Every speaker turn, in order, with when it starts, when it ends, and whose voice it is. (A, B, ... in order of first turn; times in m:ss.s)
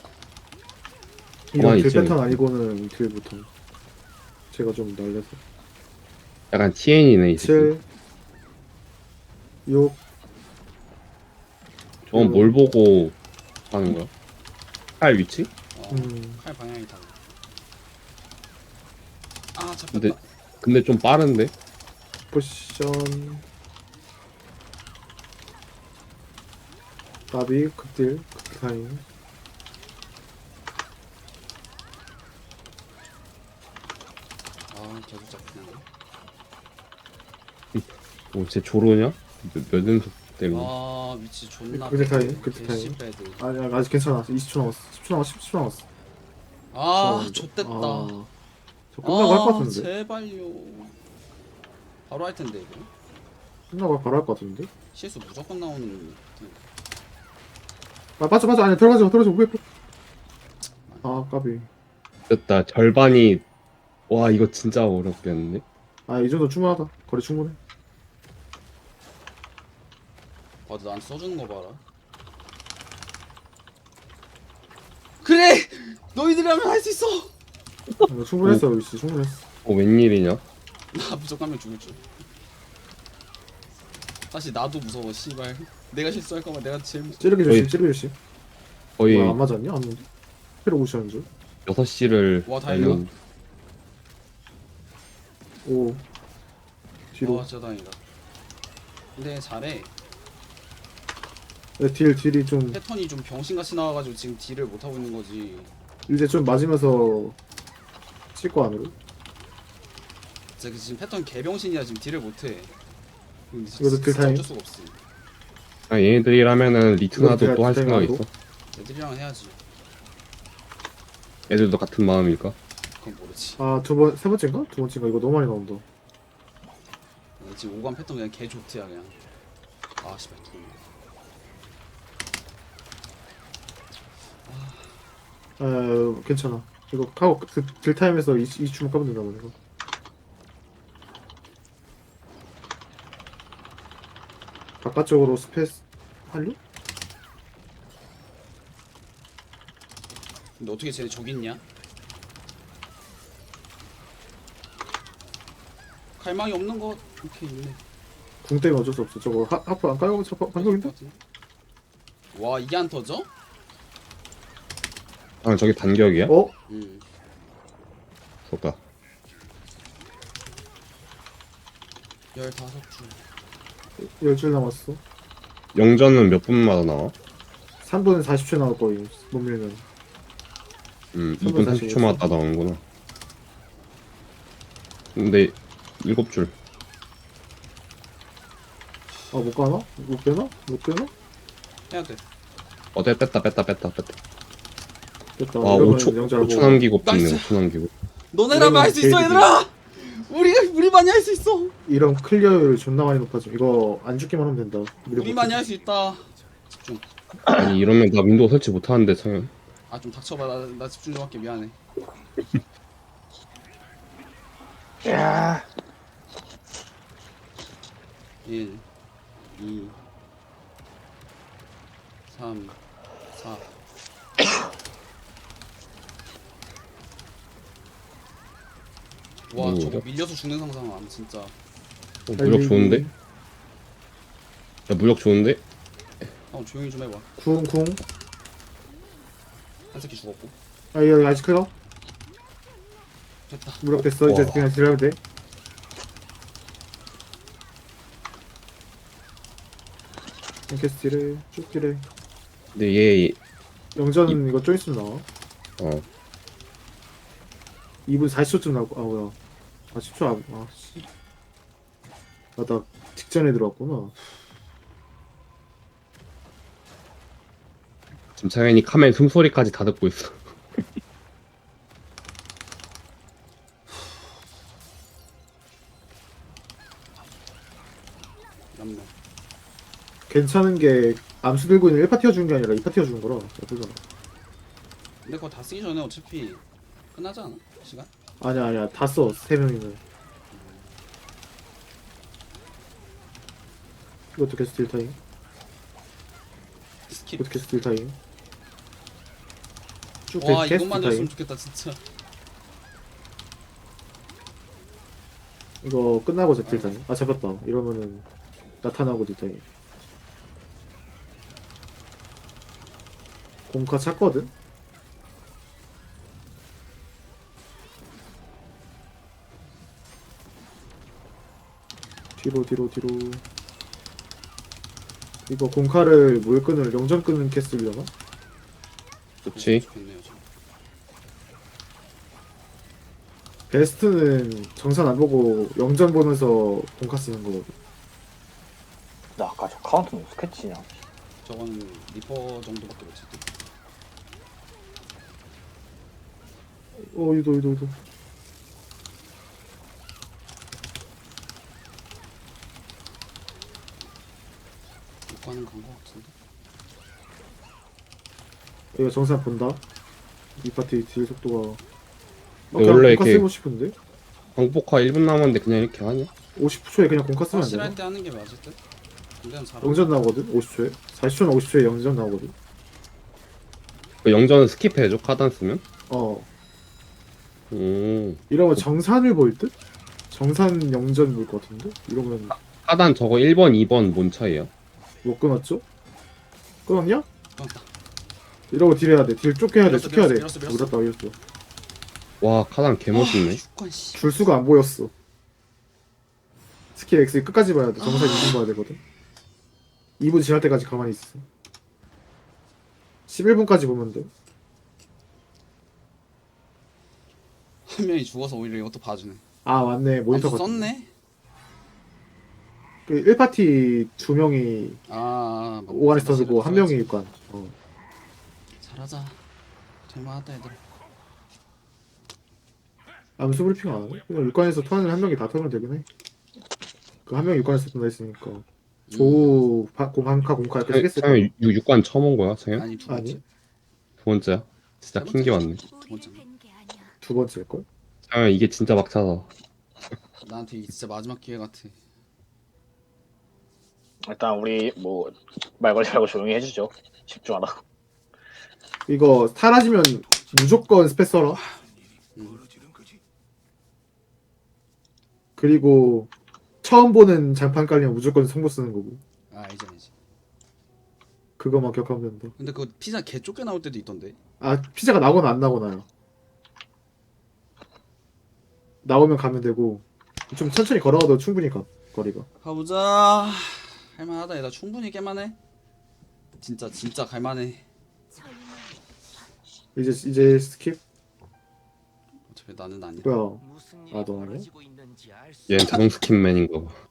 0:01.5-0:03.5 A
0:01.5-0:02.4 B
0:04.5-0:05.4 A
0:06.5-0:07.7 B
0:07.4-0:07.8 A
0:09.6-0:10.0 A
0:12.1-0:13.1 B
0:12.1-0:12.5 A
0:13.7-0:14.1 B
0:15.0-0:15.5 B
0:15.7-0:17.2 C
0:15.9-0:16.4 A
0:19.5-0:20.2 C
0:19.9-0:21.5 B
0:22.3-0:23.4 A
0:27.3-0:29.0 A
0:34.7-0:35.8 C
0:37.7-0:40.7 B
0:40.5-0:43.4 C
0:41.7-0:45.8 A
0:46.7-0:48.1 C
0:46.9-0:48.3 A
0:48.9-0:49.9 A
0:49.0-0:51.0 C
0:52.1-0:52.9 C
0:53.7-0:54.7 A
0:54.9-0:56.6 C
0:58.2-0:59.6 A
1:01.0-1:01.7 A
1:02.3-1:03.4 B
1:04.1-1:05.6 B
1:06.1-1:07.6 A
1:10.6-1:11.8 C
1:15.2-1:17.3 C
1:18.0-1:18.6 B
1:18.1-1:19.4 A
1:19.6-1:20.4 B
1:20.9-1:22.0 C
1:24.3-1:27.5 C
1:27.2-1:28.1 A
1:27.5-1:27.7 B
1:29.0-1:29.4 B
1:29.1-1:30.0 A
1:30.6-1:31.3 A
1:31.6-1:33.1 B
1:32.4-1:33.1 C
1:35.6-1:36.0 A
1:37.1-1:37.4 A
1:37.2-1:38.0 C
1:39.2-1:39.9 C
1:41.8-1:42.8 A
1:42.7-1:45.7 C
1:46.1-1:47.4 A
1:48.3-1:48.9 A
1:50.6-1:52.7 C
1:53.5-1:55.0 C
1:53.8-1:54.4 A
1:55.9-1:58.3 B
1:57.1-1:58.2 A
1:58.7-1:59.6 C
2:01.5-2:02.6 B
2:03.0-2:03.6 C
2:03.6-2:05.8 A
2:07.4-2:09.2 C
2:10.0-2:10.8 C
2:14.4-2:15.0 C
2:15.6-2:19.5 A
2:24.8-2:26.6 A
2:30.6-2:31.6 C
2:36.2-2:37.8 C
2:38.4-2:40.9 A
2:40.5-2:41.2 C
2:42.3-2:43.3 C
2:45.4-2:46.3 B
2:46.3-2:46.5 A
2:46.7-2:47.0 C
2:48.5-2:48.8 B
2:52.3-2:53.2 C
2:54.0-2:55.0 A
2:55.7-2:57.1 B
2:57.8-2:59.8 A
3:01.1-3:02.8 B
3:01.4-3:02.2 A
3:05.1-3:06.5 B
3:09.3-3:11.1 A
3:11.9-3:12.2 C
3:12.9-3:14.2 B
3:15.4-3:16.8 A
3:15.6-3:17.9 B
3:17.0-3:17.6 C
3:18.3-3:21.7 C
3:18.5-3:19.5 A
3:21.8-3:25.6 A
3:25.1-3:27.0 C
3:27.4-3:29.5 B
3:29.9-3:31.8 C
3:35.0-3:35.6 D
3:38.4-3:38.8 C
3:39.5-3:40.0 C
3:42.3-3:42.8 C
3:43.3-3:43.7 C
3:49.5-3:51.5 C
3:49.6-3:50.0 B
3:52.3-3:53.0 B
3:52.4-3:53.1 A
3:54.9-3:55.6 B
3:56.5-3:57.3 C
3:57.4-3:58.0 A
3:59.9-4:00.5 C
4:00.9-4:01.7 A
4:03.5-4:03.8 C
4:03.8-4:05.2 A
4:04.2-4:04.6 B
4:10.7-4:12.0 A
4:12.7-4:13.4 B
4:14.0-4:15.2 A
4:15.8-4:16.0 B
4:18.0-4:19.4 A
4:19.9-4:21.0 A
4:22.6-4:24.1 A
4:28.4-4:30.8 B
4:38.7-4:39.1 C
4:40.3-4:44.0 A
4:45.2-4:46.6 C
4:47.1-4:48.1 C
4:48.4-4:50.0 A
4:50.5-4:50.9 C
4:54.3-4:55.2 A
4:57.1-4:57.6 C
4:57.4-4:58.2 A
5:00.3-5:01.3 A
5:00.4-5:02.0 C
5:05.8-5:08.2 A
5:06.6-5:07.0 C
5:08.8-5:09.6 A
5:13.7-5:14.5 A
5:22.4-5:23.4 A
5:25.5-5:28.1 A
5:29.5-5:29.8 B
5:29.5-5:30.4 C
5:33.7-5:37.7 A
5:39.4-5:40.8 D
5:41.4-5:43.4 C
5:46.9-5:48.0 A
5:55.3-5:56.3 C
5:58.9-5:59.8 A
6:00.6-6:01.8 A
6:02.7-6:03.9 A
6:02.7-6:03.5 B
6:04.6-6:06.3 B
6:06.6-6:08.0 A
6:07.5-6:08.8 C
6:09.4-6:10.3 C
6:09.8-6:12.5 A
6:14.2-6:15.8 B
6:16.1-6:16.5 A
6:17.7-6:18.8 B
6:18.5-6:19.7 A
6:20.3-6:22.5 A
6:22.8-6:24.7 B
6:25.2-6:25.8 A
6:26.8-6:27.2 A
6:27.6-6:27.9 C
6:28.7-6:31.3 A
6:29.8-6:31.0 C
6:32.4-6:33.6 B
6:33.1-6:34.5 C
6:34.1-6:35.1 A
6:36.9-6:39.0 A
6:38.0-6:38.6 C
6:40.2-6:41.4 A
6:43.3-6:44.3 A
6:47.9-6:49.4 C
6:49.6-6:50.9 A
6:50.3-6:51.1 C
6:53.1-6:55.0 A
6:55.1-6:57.0 C
6:55.9-6:57.7 A
6:58.8-6:59.4 C
7:00.1-7:00.8 C
7:03.4-7:06.0 A
7:07.3-7:11.5 A
7:09.1-7:09.5 C
7:10.9-7:12.9 B
7:12.8-7:13.4 C
7:13.1-7:13.4 A
7:14.2-7:15.8 B
7:15.2-7:16.5 C
7:17.2-7:17.8 A
7:18.3-7:19.5 B
7:20.4-7:22.0 C
7:24.2-7:27.8 D
7:29.1-7:31.6 A
7:32.3-7:32.6 C
7:35.6-7:36.3 A
7:36.8-7:39.2 A
7:39.5-7:40.1 C
7:41.6-7:42.5 A
7:42.6-7:44.4 C
7:44.6-7:46.0 A
7:49.0-7:52.5 A
7:52.6-7:55.6 C
7:56.6-7:57.8 C
7:59.9-8:01.0 A
8:02.5-8:03.4 C
8:03.2-8:04.8 A
8:05.7-8:07.0 B